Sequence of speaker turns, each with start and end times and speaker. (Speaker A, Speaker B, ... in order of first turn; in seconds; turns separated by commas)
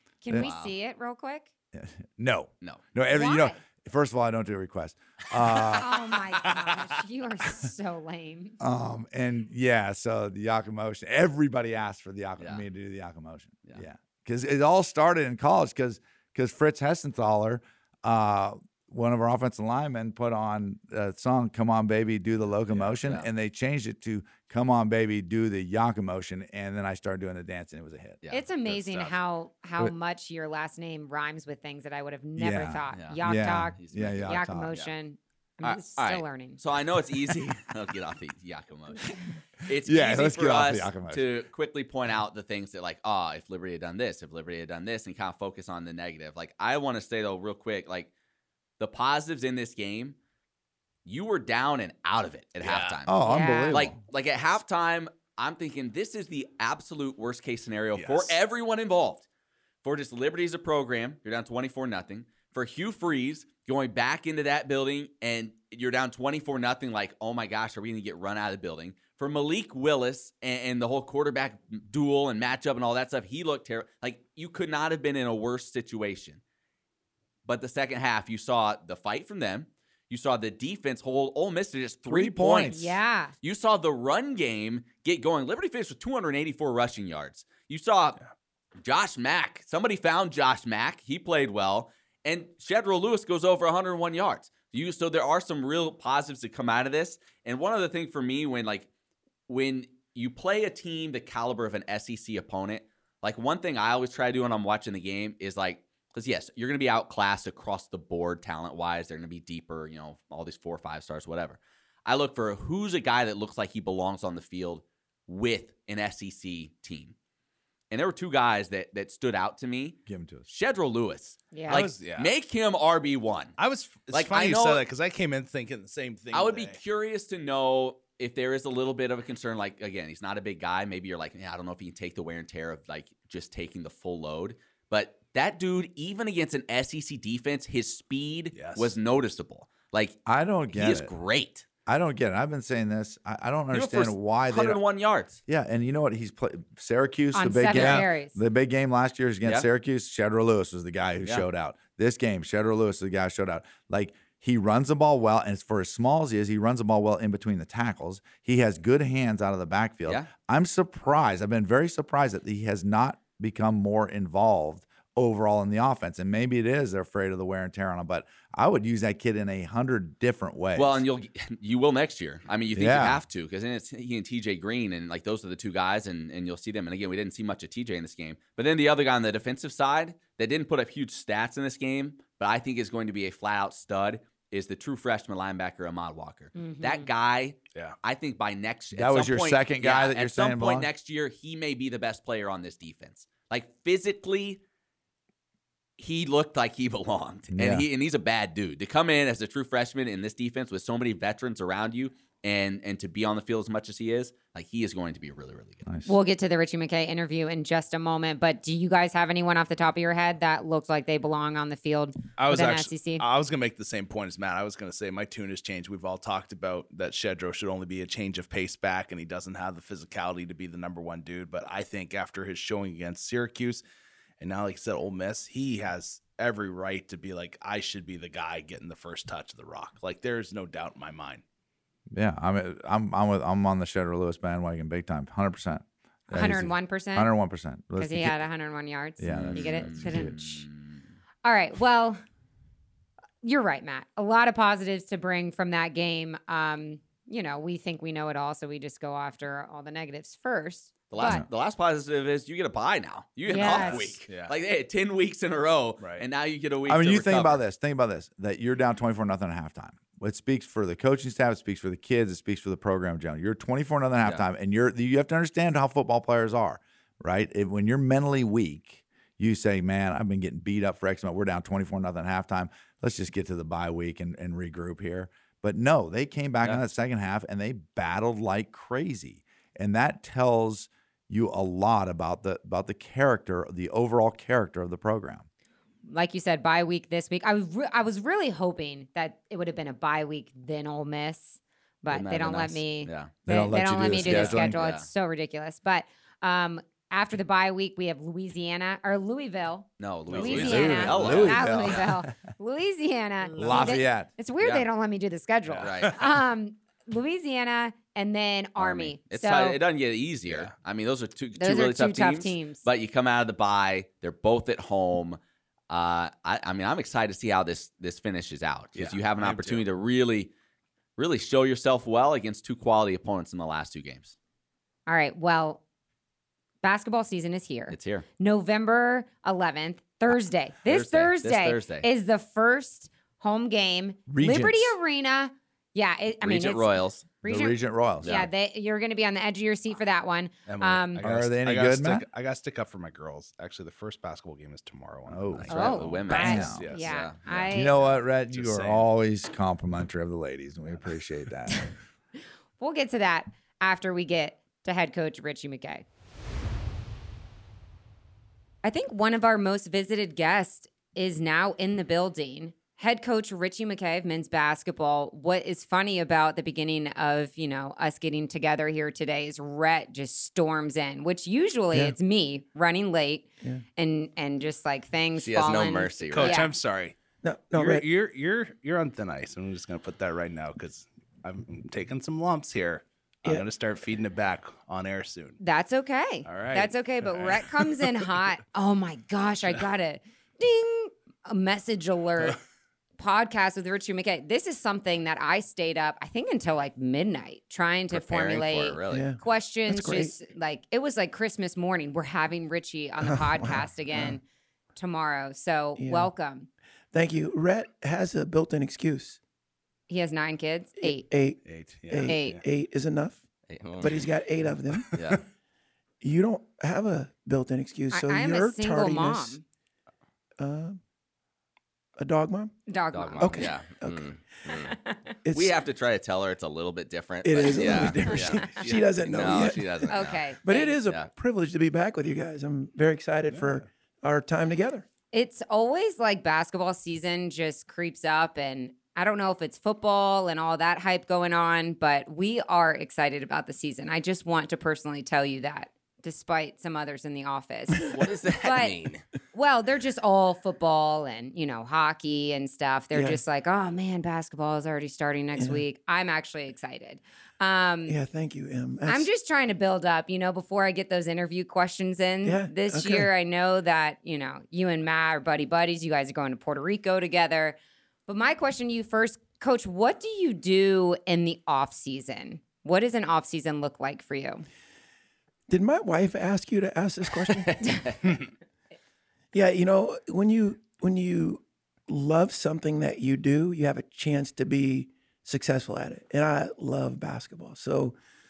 Speaker A: 0.2-1.5, Speaker B: 0.4-0.7, Speaker C: 1.7-6.2, Speaker A: 3.1-3.6, Speaker A: 5.5-8.6, Speaker C: 8.6-28.2, Speaker B: 23.0-23.3, Speaker A: 28.3-36.6, Speaker D: 28.7-29.2, Speaker C: 32.4-34.8, Speaker B: 32.9-33.2, Speaker B: 33.8-34.9, Speaker B: 35.6-48.1, Speaker C: 39.8-41.2, Speaker B: 48.8-50.2, Speaker B: 51.1-53.1, Speaker D: 52.6-53.0, Speaker C: 53.1-54.0, Speaker A: 53.3-53.8, Speaker B: 53.7-59.3, Speaker D: 58.0-58.4, Speaker B: 59.8-76.4, Speaker B: 77.5-82.9, Speaker C: 82.1-83.0, Speaker A: 82.6-83.3, Speaker B: 83.4-88.2, Speaker B: 88.8-98.9, Speaker B: 99.5-117.1, Speaker B: 117.9-123.6, Speaker C: 120.1-120.5, Speaker A: 121.5-121.8, Speaker D: 121.7-122.3, Speaker D: 123.6-126.8, Speaker B: 124.1-124.8, Speaker B: 126.3-140.2, Speaker D: 138.5-138.9, Speaker C: 140.3-141.1, Speaker B: 140.7-141.7, Speaker C: 141.9-144.8, Speaker B: 143.7-145.4, Speaker C: 145.5-171.1, Speaker A: 147.3-148.4, Speaker B: 147.7-148.1, Speaker B: 170.8-194.6, Speaker C: 172.8-173.2, Speaker A: 186.6-187.1, Speaker C: 188.9-190.9, Speaker B: 196.0-205.8, Speaker C: 197.5-197.9, Speaker C: 205.8-206.2, Speaker A: 206.1-213.2, Speaker D: 212.4-223.8, Speaker D: 224.4-231.4, Speaker C: 232.1-238.4, Speaker A: 236.3-237.3, Speaker A: 238.0-240.7, Speaker C: 239.2-240.3, Speaker B: 239.3-240.9, Speaker A: 241.4-242.2, Speaker A: 243.4-251.4, Speaker B: 251.1-257.6, Speaker A: 253.5-254.1, Speaker D: 253.5-254.5, Speaker D: 256.0-256.3, Speaker C: 256.9-285.5, Speaker A: 286.1-309.8, Speaker B: 292.1-293.4, Speaker C: 293.5-294.8, Speaker B: 294.1-295.1, Speaker B: 300.0-302.0, Speaker D: 300.3-301.5, Speaker C: 300.5-302.3, Speaker C: 303.6-304.3, Speaker D: 303.6-303.9, Speaker D: 305.7-306.2, Speaker B: 305.8-306.2, Speaker B: 308.8-315.4, Speaker D: 310.5-310.7, Speaker A: 311.6-312.9, Speaker B: 315.9-320.5, Speaker D: 319.0-319.9, Speaker B: 321.2-324.4, Speaker A: 325.1-325.8, Speaker A: 326.8-341.2, Speaker B: 327.9-328.3, Speaker B: 330.9-332.1, Speaker C: 334.3-334.9, Speaker B: 336.4-337.3, Speaker C: 337.5-338.4, Speaker B: 338.2-338.5, Speaker D: 340.7-349.1, Speaker C: 341.2-342.2, Speaker C: 345.3-346.8, Speaker B: 345.7-347.4, Speaker A: 345.7-348.0, Speaker C: 347.7-351.9, Speaker A: 352.8-356.1, Speaker A: 358.8-376.7, Speaker B: 375.4-376.7, Speaker D: 376.3-377.1, Speaker E: 377.4-378.1, Speaker D: 377.8-385.6, Speaker A: 385.6-392.6, Speaker D: 386.4-388.1, Speaker A: 393.2-404.4, Speaker B: 398.1-399.3, Speaker E: 399.1-400.3, Speaker E: 403.2-404.4, Speaker A: 405.0-406.7, Speaker E: 406.0-406.3, Speaker E: 407.1-409.4, Speaker A: 410.1-411.3, Speaker E: 411.0-413.4, Speaker D: 411.6-412.6, Speaker A: 412.2-412.6, Speaker B: 413.7-414.3, Speaker E: 414.0-415.2, Speaker D: 415.0-415.4, Speaker B: 415.1-415.4, Speaker E: 416.2-419.6, Speaker A: 418.1-419.6, Speaker E: 420.6-421.0, Speaker E: 422.2-422.7, Speaker A: 422.9-423.7, Speaker B: 423.1-424.9, Speaker E: 423.4-424.3, Speaker A: 424.7-425.3, Speaker E: 425.4-425.8, Speaker B: 425.5-431.3, Speaker E: 427.4-435.1, Speaker A: 428.3-428.9, Speaker A: 430.1-431.0, Speaker A: 435.3-458.1, Speaker B: 448.1-449.2, Speaker E: 453.1-453.4, Speaker E: 455.6-455.8, Speaker E: 458.1-459.3, Speaker A: 459.1-467.8, Speaker E: 462.4-463.3, Speaker A: 468.3-474.7, Speaker E: 475.7-477.9, Speaker E: 479.5-488.1